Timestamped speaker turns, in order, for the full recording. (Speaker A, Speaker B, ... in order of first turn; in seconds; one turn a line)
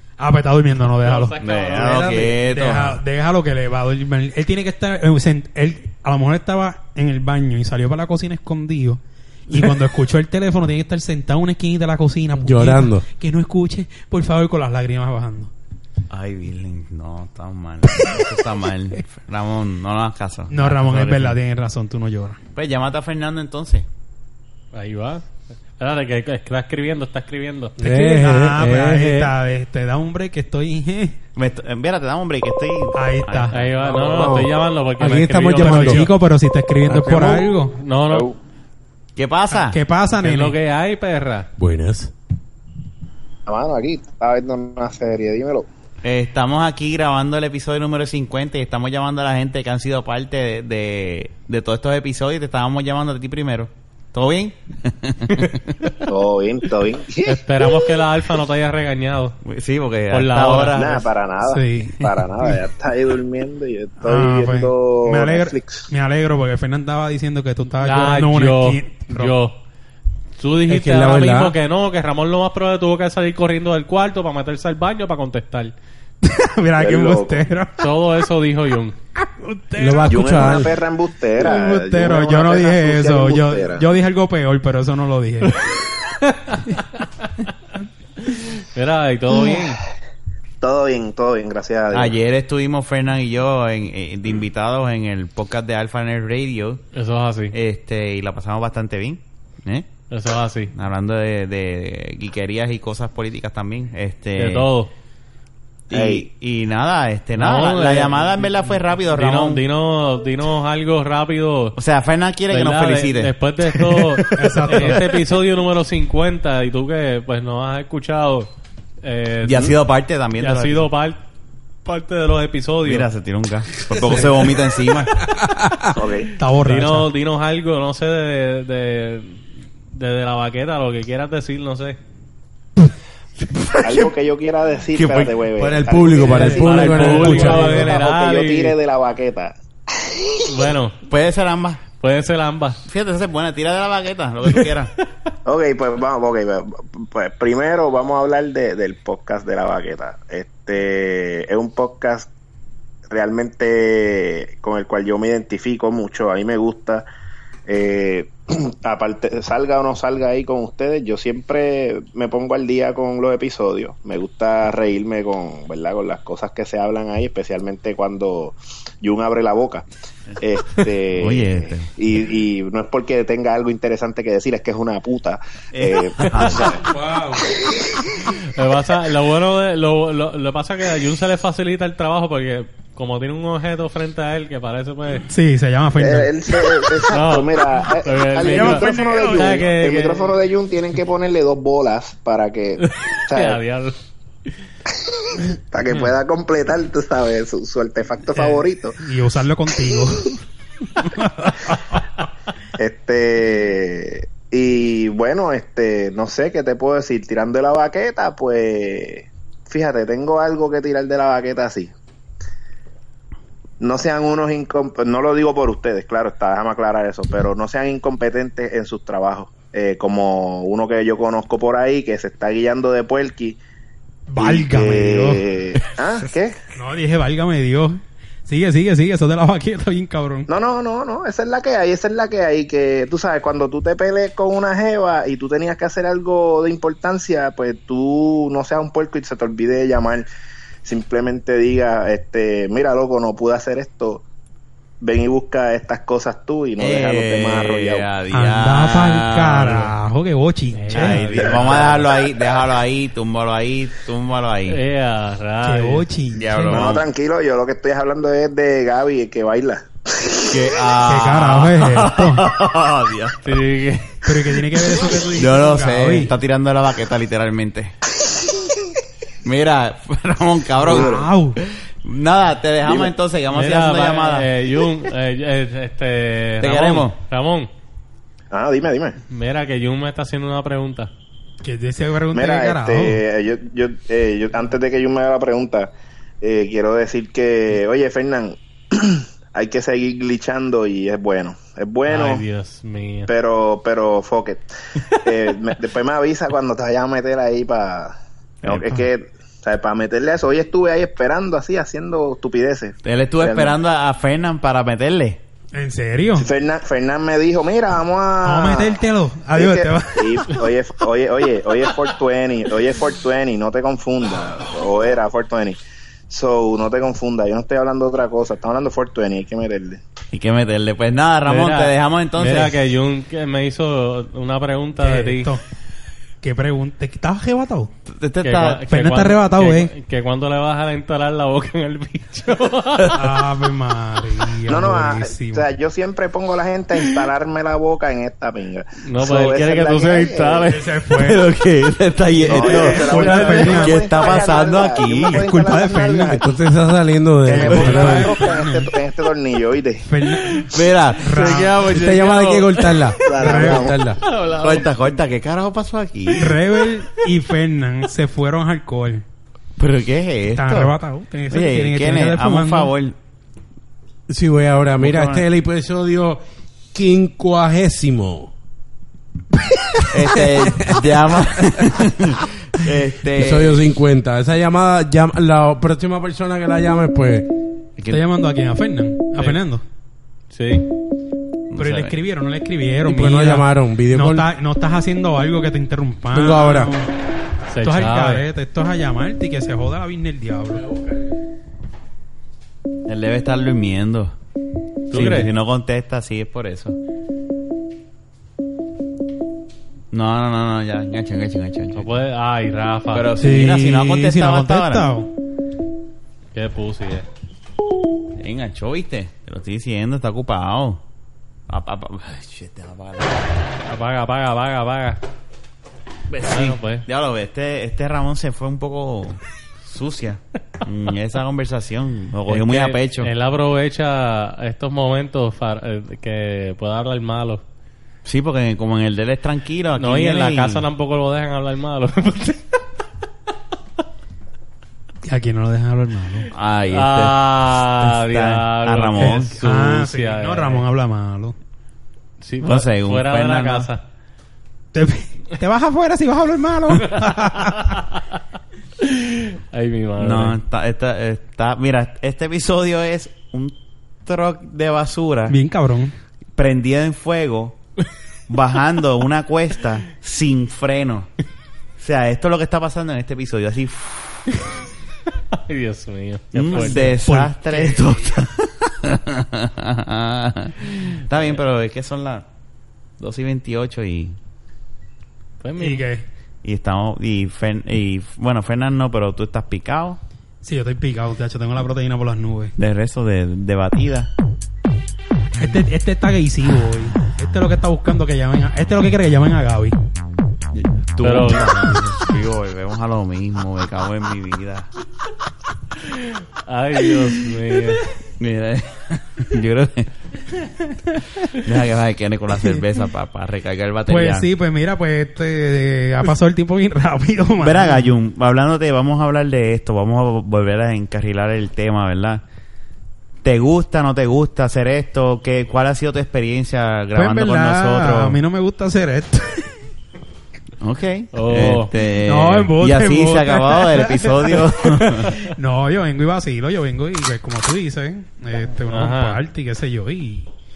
Speaker A: 0.2-15.5
Speaker B: 1.0-2.4
Speaker C: 1.4-3.0
Speaker D: 12.4-13.1
Speaker C: 16.1-21.4
Speaker A: 20.5-22.4
Speaker C: 22.6-23.9
Speaker B: 24.7-27.8
Speaker D: 27.8-29.3
Speaker A: 27.8-31.2
Speaker C: 31.4-33.7
Speaker A: 32.9-33.7
Speaker B: 33.5-36.1
Speaker D: 33.9-36.1
Speaker A: 35.6-37.8
Speaker D: 36.9-37.5
Speaker B: 37.7-38.3
Speaker E: 38.1-38.3
Speaker C: 39.2-39.8
Speaker A: 39.5-40.6
Speaker B: 40.2-41.5
Speaker D: 41.6-42.1
Speaker E: 43.5-45.7
Speaker C: 46.0-56.0
Speaker E: 56.1-57.4
Speaker B: 57.2-59.4
Speaker C: 59.4-61.0
Speaker B: 60.1-61.0
Speaker E: 60.8-65.9
Speaker A: 61.4-62.6
Speaker A: 64.0-69.4
Speaker B: 67.8-69.6
Speaker B: 70.4-75.7
Speaker D: 70.7-71.5
Speaker A: 76.2-77.9
Speaker E: 76.8-77.5
Speaker B: 77.8-79.0
Speaker A: 79.2-80.7
Speaker D: 79.8-80.7
Speaker E: 80.1-83.8
Speaker A: 81.4-85.6
Speaker B: 88.3-89.8
Speaker E: 90.6-92.2
Speaker C: 91.9-96.8
Speaker B: 96.9-97.5
Speaker C: 97.5-99.9
Speaker B: 100.1-100.7
Speaker C: 100.7-104.7
Speaker B: 104.4-104.9
Speaker C: 105.9-109.6
Speaker E: 105.9-106.3
Speaker B: 107.3-111.8
Speaker C: 111.8-115.0
Speaker B: 112.5-118.5
Speaker A: 114.3-115.1
Speaker B: 119.0-119.8
Speaker C: 119.4-120.9
Speaker B: 120.4-121.2
Speaker B: 121.8-123.1
Speaker C: 122.8-125.2
Speaker D: 125.3-125.9
Speaker E: 125.9-126.3
Speaker A: 126.4-127.1
Speaker B: 126.7-132.0
Speaker E: 133.8-140.5
Speaker C: 134.9-135.3
Speaker D: 135.6-137.9
Speaker B: 136.3-138.8
Speaker A: 136.8-137.9
Speaker B: 140.4-141.0
Speaker C: 141.1-141.8
Speaker B: 142.0-142.8
Speaker C: 142.8-144.9
Speaker E: 145.5-152.3
Speaker E: 153.1-157.1
Speaker E: 157.7-169.8
Speaker E: 170.4-176.8
Speaker C: 171.2-171.9
Speaker C: 175.7-176.8
Speaker D: 176.8-177.5
Speaker E: 177.6-178.1
Speaker B: 178.3-185.3
Speaker A: 185.3-186.3
Speaker E: 186.0-193.6
Speaker B: 187.1-190.3
Speaker A: 188.5-189.7
Speaker B: 192.8-194.0
Speaker E: 194.9-199.0
Speaker A: 198.4-200.4
Speaker A: 201.0-202.0
Speaker E: 202.8-211.9
Speaker E: 213.8-223.6
Speaker A: 224.3-225.4
Speaker E: 224.4-226.6
Speaker A: 226.8-230.5
Speaker E: 230.5-240.3
Speaker E: 240.8-244.2
Speaker E: 245.0-248.1
Speaker C: 246.8-249.9
Speaker A: 248.3-251.2
Speaker B: 250.7-251.9
Speaker C: 250.9-254.8
Speaker E: 251.3-252.1
Speaker B: 254.7-256.0
Speaker A: 255.6-256.9
Speaker C: 256.3-257.1
Speaker E: 256.7-260.6
Speaker C: 260.5-263.6
Speaker A: 261.0-262.4
Speaker B: 263.4-264.2
Speaker A: 264.2-266.3
Speaker C: 264.9-267.9
Speaker E: 268.2-268.6
Speaker C: 269.4-274.5
Speaker A: 270.8-271.6
Speaker E: 270.9-271.2
Speaker E: 272.8-273.1
Speaker B: 273.5-277.7
Speaker C: 276.6-277.1
Speaker E: 278.5-279.2
Speaker B: 279.3-281.1
Speaker A: 281.6-283.2
Speaker E: 282.3-285.9
Speaker E: 286.4-292.4
Speaker B: 292.1-293.3
Speaker E: 293.3-303.8
Speaker C: 298.6-299.0
Speaker C: 303.0-305.4
Speaker A: 305.7-306.5
Speaker E: 306.4-320.0
Speaker A: 308.4-310.5
Speaker C: 320.3-322.8
Speaker B: 321.4-325.5
Speaker A: 325.0-325.6
Speaker A: 326.4-327.9
Speaker C: 328.1-328.8
Speaker B: 328.4-333.3
Speaker A: 328.9-329.9
Speaker A: 333.1-335.7
Speaker E: 334.7-340.7
Speaker B: 339.0-340.9
Speaker A: 340.7-341.4
Speaker C: 341.1-345.5
Speaker A: 342.4-344.6
Speaker E: 342.4-346.4
Speaker A: 345.2-346.4
Speaker D: 346.4-348.3
Speaker E: 347.5-350.1
Speaker A: 347.5-348.9
Speaker A: 350.1-351.8
Speaker C: 350.6-351.8
Speaker B: 351.3-353.3
Speaker D: 351.8-354.2
Speaker E: 353.2-354.1
Speaker A: 353.4-353.9
Speaker C: 354.3-356.6
Speaker B: 354.3-354.9
Speaker A: 356.3-359.2
Speaker C: 359.8-361.0
Speaker A: 360.6-362.9
Speaker C: 361.5-363.2
Speaker D: 364.3-366.4
Speaker C: 365.0-365.4
Speaker D: 366.9-368.5
Speaker C: 370.1-373.8
Speaker D: 373.4-377.5
Speaker A: 378.1-379.8
Speaker B: 380.5-380.9
Speaker C: 381.7-382.1
Speaker A: 381.8-387.1
Speaker D: 383.0-384.5
Speaker D: 386.3-386.9
Speaker B: 387.7-388.5
Speaker A: 387.8-390.9
Speaker C: 393.1-394.4
Speaker B: 395.1-395.5
Speaker C: 395.1-397.0
Speaker C: 400.1-402.1
Speaker B: 401.9-403.3
Speaker C: 403.1-405.1
Speaker A: 403.4-405.3
Speaker B: 406.5-407.3
Speaker C: 408.4-411.0
Speaker C: 411.7-413.5
Speaker B: 413.9-415.2
Speaker C: 416.3-423.3
Speaker B: 416.5-417.1
Speaker B: 422.5-427.6
Speaker C: 428.2-430.8
Speaker B: 430.0-432.8
Speaker A: 435.2-436.5
Speaker C: 436.5-439.5
Speaker B: 436.9-440.9
Speaker A: 439.2-441.6
Speaker B: 442.4-444.0
Speaker C: 442.6-443.9
Speaker A: 444.9-448.0
Speaker B: 447.2-447.7
Speaker B: 449.0-450.6
Speaker C: 450.2-455.6
Speaker A: 455.5-456.1
Speaker C: 456.6-457.8
Speaker C: 458.5-461.3
Speaker C: 462.0-464.6
Speaker B: 465.7-467.2
Speaker C: 466.5-472.5
Speaker A: 466.7-468.2
Speaker C: 473.2-474.4
Speaker B: 475.6-476.0
Speaker A: 475.8-476.2
Speaker C: 476.6-480.2
Speaker A: 480.6-482.8
Speaker C: 482.8-484.3
Speaker A: 485.6-490.0
Speaker C: 490.7-494.9
Speaker B: 491.2-491.8
Speaker B: 496.1-498.0
Speaker C: 498.4-500.1
Speaker A: 500.7-501.2
Speaker C: 501.5-504.5
Speaker A: 504.1-508.1
Speaker C: 507.6-512.4
Speaker C: 513.4-518.4
Speaker A: 517.1-519.8
Speaker C: 520.8-525.4
Speaker B: 521.3-521.9
Speaker A: 522.2-530.5
Speaker B: 528.9-529.4